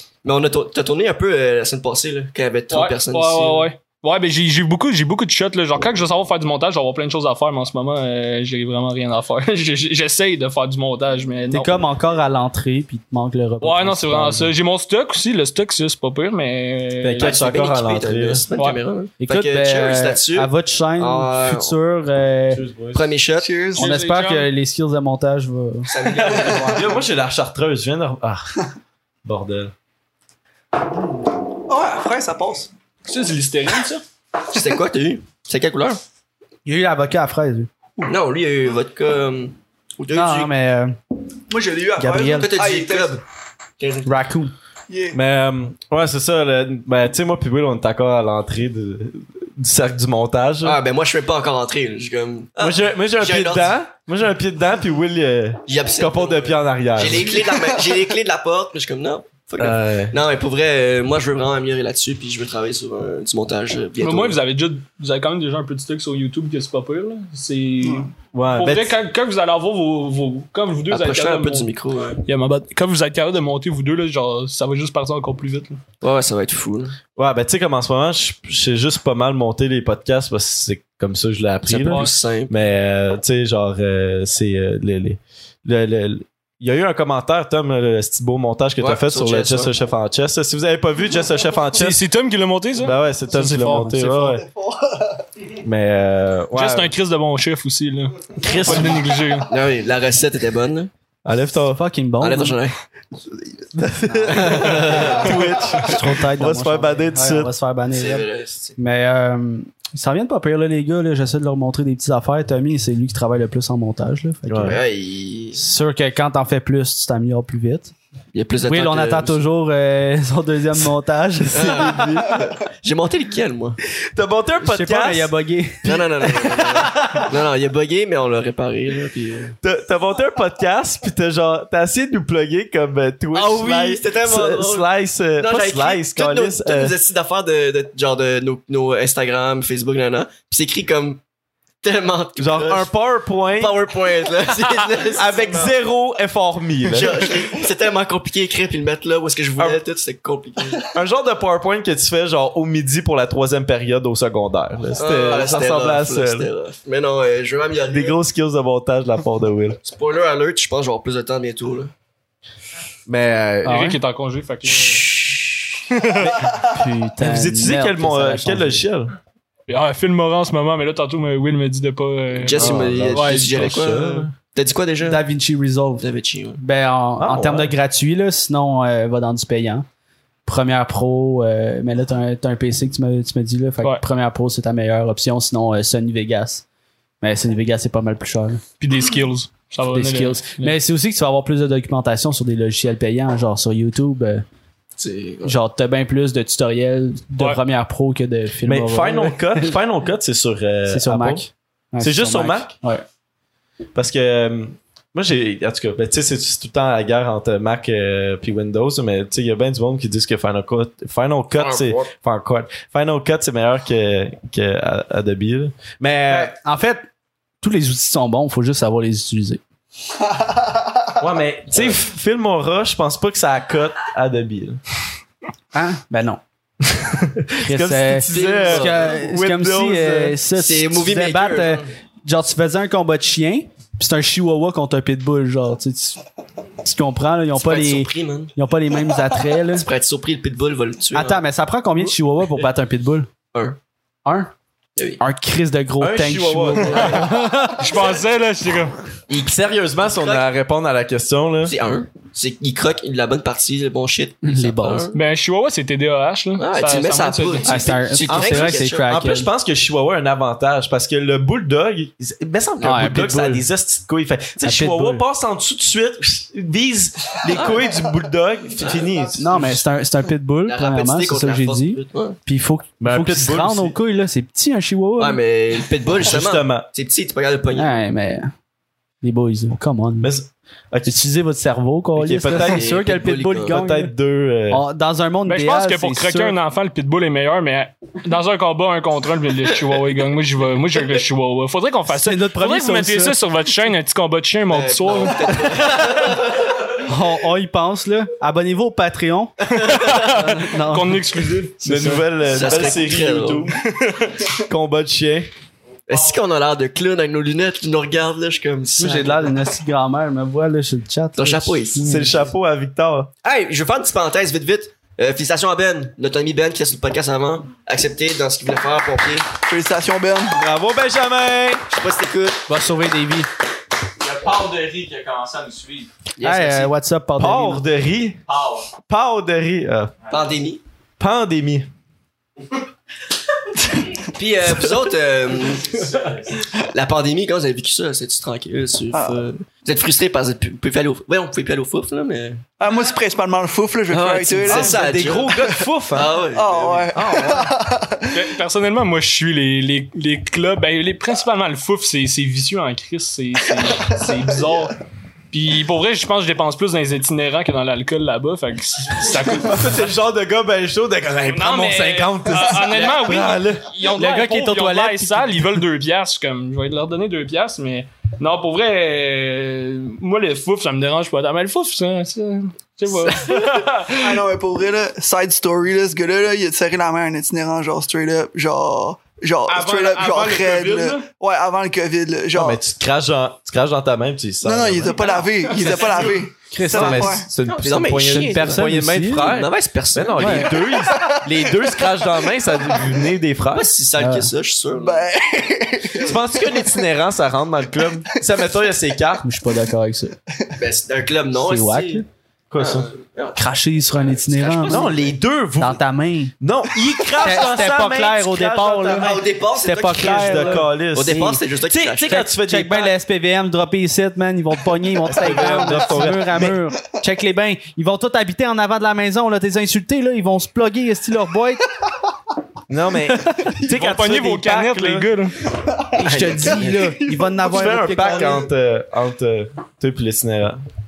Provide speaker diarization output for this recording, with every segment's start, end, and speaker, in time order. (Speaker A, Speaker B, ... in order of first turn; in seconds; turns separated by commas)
Speaker A: 0.2-3.7, Speaker B: 2.7-11.9, Speaker C: 11.5-14.5, Speaker B: 13.6-17.4, Speaker D: 17.0-18.4, Speaker A: 17.2-21.8, Speaker B: 18.6-18.8, Speaker C: 19.2-22.6, Speaker D: 22.5-23.1, Speaker A: 22.9-23.6, Speaker E: 23.4-23.9, Speaker B: 23.8-24.5, Speaker C: 23.8-25.9, Speaker A: 25.9-26.9, Speaker D: 26.1-28.5, Speaker E: 26.3-26.8, Speaker D: 29.2-29.7, Speaker E: 31.7-32.7, Speaker B: 33.1-34.0, Speaker A: 34.5-36.0, Speaker C: 36.7-37.7, Speaker A: 38.1-40.5, Speaker C: 40.1-41.0, Speaker E: 41.5-43.2, Speaker C: 42.0-42.5, Speaker A: 42.3-43.2, Speaker A: 43.8-44.1, Speaker C: 44.0-44.5, Speaker E: 44.9-45.2, Speaker D: 45.1-50.8, Speaker A: 50.6-53.8, Speaker D: 52.6-57.4, Speaker A: 55.7-64.4, Speaker E: 57.2-58.0, Speaker D: 59.6-60.2, Speaker B: 64.0-71.7, Speaker E: 67.8-68.1, Speaker D: 68.3-68.9, Speaker A: 70.9-72.2, Speaker B: 72.2-75.8, Speaker A: 76.0-77.0, Speaker D: 77.2-92.0, Speaker A: 81.6-82.5, Speaker B: 81.9-82.1, Speaker A: 88.8-89.7, Speaker B: 91.7-94.2, Speaker D: 92.8-94.5, Speaker E: 94.2-95.2, Speaker D: 95.6-96.9, Speaker B: 96.5-99.5, Speaker D: 98.4-99.0, Speaker A: 99.5-100.9, Speaker D: 101.2-101.8, Speaker C: 101.7-102.6, Speaker A: 102.2-102.8, Speaker D: 103.8-107.5, Speaker C: 104.1-104.6, Speaker A: 104.3-105.9, Speaker C: 105.8-114.8, Speaker A: 107.9-108.8, Speaker D: 114.5-114.8, Speaker A: 114.6-115.6, Speaker C: 115.5-117.9, Speaker A: 118.3-119.4, Speaker C: 118.7-122.1, Speaker A: 121.5-123.8, Speaker D: 121.8-122.2, Speaker D: 124.1-125.3, Speaker C: 124.6-126.5, Speaker A: 125.8-129.6, Speaker D: 129.6-137.0, Speaker A: 133.3-141.2, Speaker A: 141.8-142.9, Speaker D: 142.4-143.9, Speaker A: 143.6-145.8, Speaker D: 144.9-147.2, Speaker A: 146.8-150.9, Speaker D: 150.9-156.5, Speaker A: 154.9-158.2, Speaker D: 157.8-159.8, Speaker A: 159.8-161.9, Speaker D: 163.1-163.9, Speaker B: 163.7-165.1, Speaker C: 163.7-164.0, Speaker A: 164.7-165.9, Speaker B: 165.9-166.3, Speaker D: 166.2-169.1, Speaker C: 166.6-168.8, Speaker B: 169.7-173.7, Speaker A: 172.3-175.2, Speaker D: 172.5-174.3, Speaker C: 175.0-176.1, Speaker A: 176.0-176.6, Speaker C: 176.6-179.9, Speaker D: 177.2-177.7, Speaker C: 180.5-186.6, Speaker C: 187.2-188.6, Speaker B: 188.8-190.8, Speaker C: 189.9-194.4, Speaker A: 195.0-195.6, Speaker C: 195.4-199.8, Speaker D: 198.7-201.5, Speaker C: 200.9-203.1, Speaker D: 202.0-202.7, Speaker D: 203.9-216.5, Speaker A: 211.6-212.1, Speaker C: 216.3-217.1, Speaker C: 217.6-219.6, Speaker D: 221.2-224.8, Speaker A: 221.7-222.0, Speaker C: 225.7-226.4, Speaker D: 226.8-230.4, Speaker C: 227.6-236.2, Speaker A: 228.3-229.1, Speaker A: 230.6-231.9, Speaker C: 236.8-239.9, Speaker A: 237.6-238.5, Speaker A: 239.7-241.4, Speaker C: 241.1-243.3, Speaker C: 244.2-244.5, Speaker C: 245.2-247.8, Speaker D: 246.0-247.3, Speaker A: 246.9-247.3, Speaker B: 247.2-249.0, Speaker D: 249.3-251.8, Speaker A: 250.1-250.5, Speaker A: 251.7-255.2, Speaker C: 254.4-255.1, Speaker B: 255.1-258.1, Speaker A: 256.6-259.2, Speaker C: 257.6-259.5, Speaker D: 258.3-269.9, Speaker A: 262.8-263.4, Speaker C: 262.8-263.6, Speaker C: 264.6-265.2, Speaker A: 267.5-268.0, Speaker A: 268.8-269.2, Speaker C: 269.4-275.4, Speaker A: 270.7-272.4, Speaker D: 273.0-274.0, Speaker A: 275.2-277.9, Speaker D: 276.2-276.9, Speaker C: 277.7-278.5, Speaker C: 279.2-280.3, Speaker D: 280.2-281.2, Speaker C: 281.1-284.1, Speaker D: 282.2-282.9, Speaker A: 282.6-283.8, Speaker D: 283.6-284.8, Speaker C: 284.7-286.6, Speaker B: 285.5-295.6, Speaker C: 292.1-293.4, Speaker A: 294.7-296.7, Speaker C: 297.0-302.2, Speaker A: 299.7-300.3, Speaker B: 299.8-301.8, Speaker D: 301.8-303.8, Speaker A: 302.5-303.7, Speaker D: 304.6-305.5, Speaker A: 306.1-309.6, Speaker C: 309.0-312.5, Speaker A: 311.4-312.1, Speaker D: 312.0-313.3, Speaker A: 313.4-319.5, Speaker E: 319.7-320.6, Speaker D: 320.5-321.8, Speaker A: 321.9-322.6, Speaker C: 322.7-323.5, Speaker F: 324.2-326.1, Speaker A: 326.4-326.9, Speaker C: 326.4-327.8, Speaker D: 327.4-328.4, Speaker F: 328.5-328.9, Speaker D: 329.0-330.1, Speaker F: 330.2-330.5, Speaker A: 330.3-330.8, Speaker D: 331.2-331.9, Speaker A: 334.3-336.1, Speaker F: 335.8-336.6, Speaker A: 336.9-342.6, Speaker E: 339.1-339.5, Speaker E: 342.8-345.9, Speaker A: 344.1-345.6, Speaker D: 344.7-346.4, Speaker A: 346.1-347.3, Speaker E: 346.5-348.5, Speaker D: 347.2-347.7, Speaker B: 348.3-355.0, Speaker B: 355.5-360.1, Speaker D: 359.5-363.9, Speaker B: 361.5-374.4, Speaker C: 364.2-365.7, Speaker E: 374.1-382.8, Speaker B: 379.7-381.3, Speaker D: 382.5-386.0, Speaker E: 384.6-387.5, Speaker B: 385.7-386.4, Speaker C: 386.7-389.6, Speaker D: 386.9-393.9, Speaker A: 387.7-390.7, Speaker C: 390.4-390.7, Speaker E: 390.9-392.1, Speaker A: 393.7-395.2, Speaker C: 394.2-394.5, Speaker E: 394.9-396.4, Speaker D: 396.2-399.4, Speaker C: 399.4-400.4, Speaker A: 400.8-402.2, Speaker C: 401.5-402.3, Speaker D: 402.7-403.1, Speaker A: 402.8-403.6, Speaker C: 403.6-405.1, Speaker A: 404.2-405.4, Speaker D: 404.9-406.0, Speaker C: 405.8-406.6, Speaker D: 406.6-413.1, Speaker C: 407.4-411.6, Speaker A: 409.1-412.5, Speaker C: 412.3-421.9, Speaker D: 415.2-416.8, Speaker D: 422.9-425.3, Speaker B: 423.8-425.6, Speaker E: 425.8-428.7, Speaker C: 426.2-428.7, Speaker A: 426.2-427.0, Speaker D: 427.7-430.8